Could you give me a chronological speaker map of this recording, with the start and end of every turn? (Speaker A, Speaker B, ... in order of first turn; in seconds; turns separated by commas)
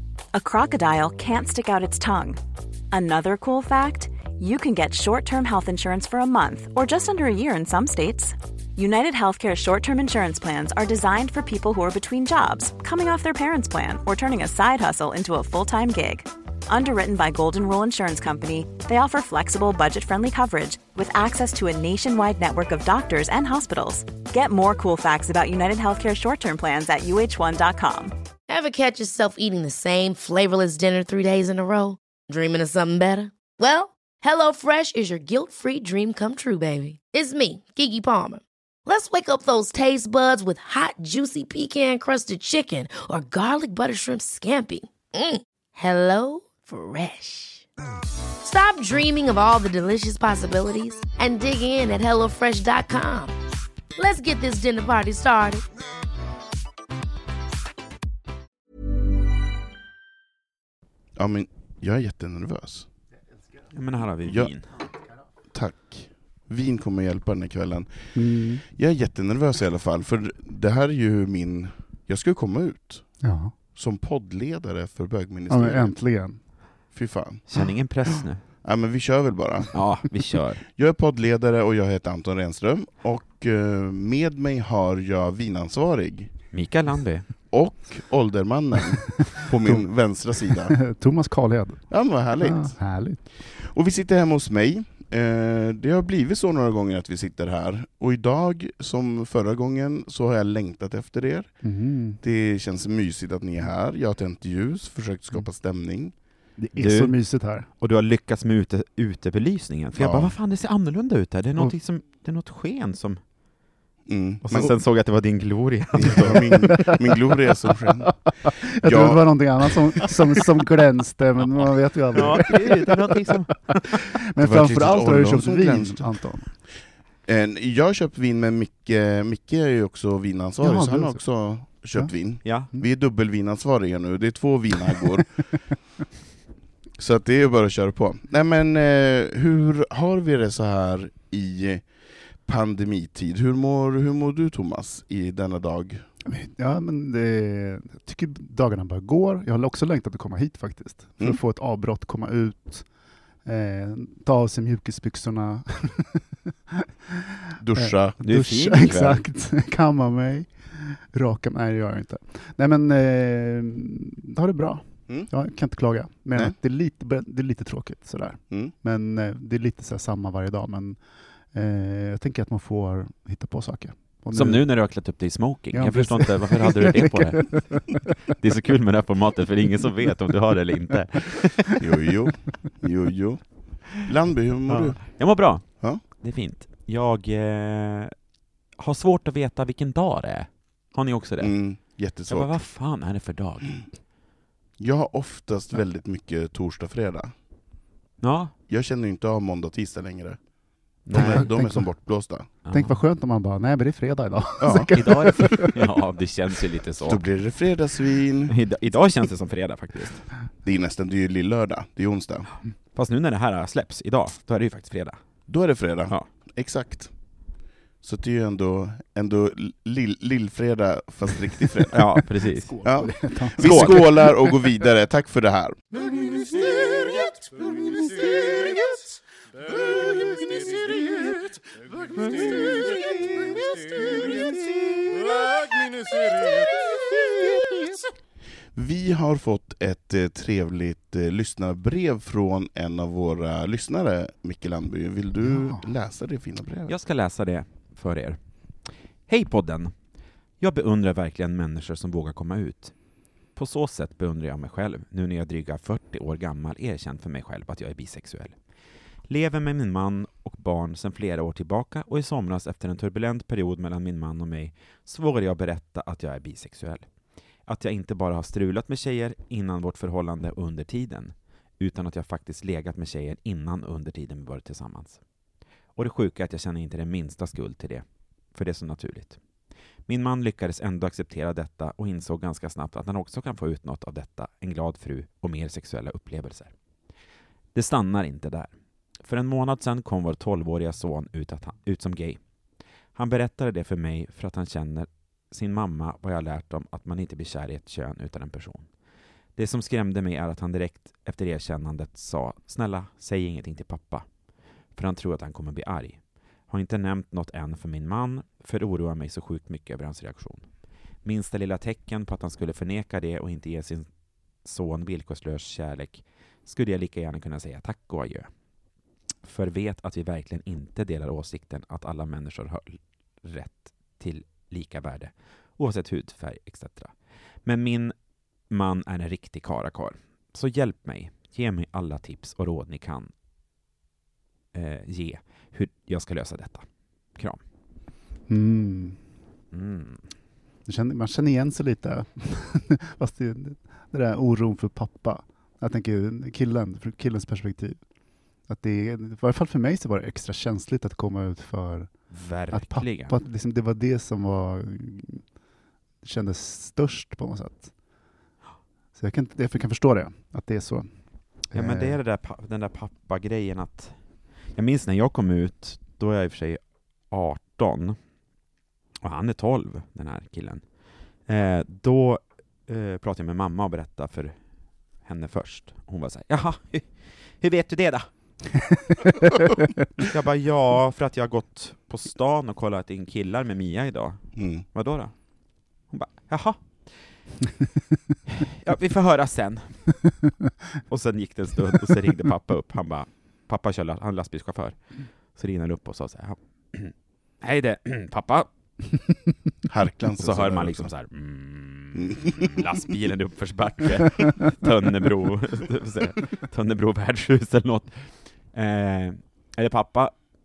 Speaker A: 0.3-2.4, Speaker A: 2.9-28.1, Speaker B: 28.5-47.6, Speaker B: 48.4-53.3, Speaker B: 54.0-55.6, Speaker C: 61.1-62.9, Speaker D: 63.7-64.6, Speaker C: 64.2-64.5, Speaker C: 65.5-68.1, Speaker E: 68.1-68.6, Speaker C: 68.6-73.0, Speaker E: 73.2-73.5, Speaker C: 73.7-75.9, Speaker E: 75.5-76.4, Speaker C: 76.9-77.5, Speaker D: 77.5-78.4, Speaker C: 78.6-79.8, Speaker D: 79.7-80.6, Speaker C: 80.8-86.3, Speaker D: 86.5-87.3, Speaker C: 87.5-90.8, Speaker E: 90.7-91.8, Speaker C: 91.9-92.8, Speaker E: 92.4-93.2, Speaker C: 93.4-101.5, Speaker E: 101.6-102.2, Speaker C: 102.2-106.1, Speaker E: 106.6-107.7, Speaker D: 106.8-107.2, Speaker D: 107.8-113.2, Speaker C: 110.0-110.3, Speaker C: 114.0-114.7, Speaker D: 114.4-116.6, Speaker C: 115.9-118.1, Speaker E: 116.5-117.0, Speaker E: 118.0-123.3, Speaker C: 118.8-120.1, Speaker D: 122.1-123.9, Speaker E: 123.9-126.5, Speaker C: 124.4-126.2, Speaker C: 127.2-135.4, Speaker E: 130.6-131.2, Speaker D: 132.4-132.7, Speaker C: 137.0-141.9, Speaker C: 142.4-146.0, Speaker E: 146.2-152.8, Speaker E: 153.4-157.2, Speaker C: 157.6-158.2, Speaker E: 157.8-171.0, Speaker D: 158.2-159.2, Speaker E: 171.5-174.6, Speaker D: 174.3-181.9, Speaker E: 175.7-178.1, Speaker C: 181.8-185.0, Speaker D: 184.7-188.1, Speaker D: 188.8-191.5, Speaker C: 191.4-192.6, Speaker D: 192.3-193.9, Speaker C: 194.8-197.3, Speaker D: 198.2-198.5, Speaker C: 198.7-200.4, Speaker D: 201.1-201.5, Speaker C: 201.1-202.5, Speaker E: 201.2-201.8, Speaker D: 202.7-203.0, Speaker E: 202.7-205.7, Speaker C: 204.6-204.9, Speaker D: 204.9-207.2, Speaker C: 207.0-208.5, Speaker D: 208.5-210.3, Speaker C: 210.6-212.5, Speaker D: 212.9-215.2, Speaker C: 215.5-217.1, Speaker C: 218.0-222.0, Speaker D: 221.9-222.8, Speaker E: 222.5-224.5, Speaker C: 222.8-225.8, Speaker D: 223.6-224.0, Speaker C: 226.5-227.1, Speaker C: 230.1-230.7, Speaker C: 238.7-246.9, Speaker E: 245.4-245.8, Speaker D: 246.9-248.4, Speaker D: 249.3-249.9, Speaker D: 250.6-252.9, Speaker D: 253.6-258.5, Speaker D: 259.3-267.1, Speaker D: 267.7-275.2, Speaker D: 275.9-279.4, Speaker D: 280.1-286.7, Speaker D: 287.7-288.7, Speaker D: 289.2-292.4, Speaker D: 293.1-298.9, Speaker D: 299.6-304.2, Speaker D: 304.9-310.6, Speaker D: 311.2-314.1, Speaker D: 314.6-318.5, Speaker D: 319.4-327.1, Speaker D: 327.6-328.1, Speaker D: 328.7-333.3, Speaker D: 334.7-336.8, Speaker E: 338.5-339.2, Speaker D: 339.7-340.2, Speaker E: 340.9-348.0, Speaker E: 348.7-352.1, Speaker D: 352.3-353.4, Speaker E: 352.7-355.4, Speaker E: 356.2-357.9, Speaker E: 359.1-361.1, Speaker E: 361.7-362.2, Speaker D: 361.7-364.1, Speaker D: 364.7-368.2, Speaker D: 369.2-370.8, Speaker D: 371.5-374.6, Speaker D: 375.2-378.3, Speaker E: 379.2-379.8, Speaker D: 380.2-385.3, Speaker C: 384.6-384.8, Speaker D: 386.1-387.3, Speaker D: 388.6-390.2, Speaker D: 391.1-395.0, Speaker D: 395.5-398.7, Speaker C: 399.9-401.1, Speaker D: 400.4-410.3, Speaker C: 402.2-402.7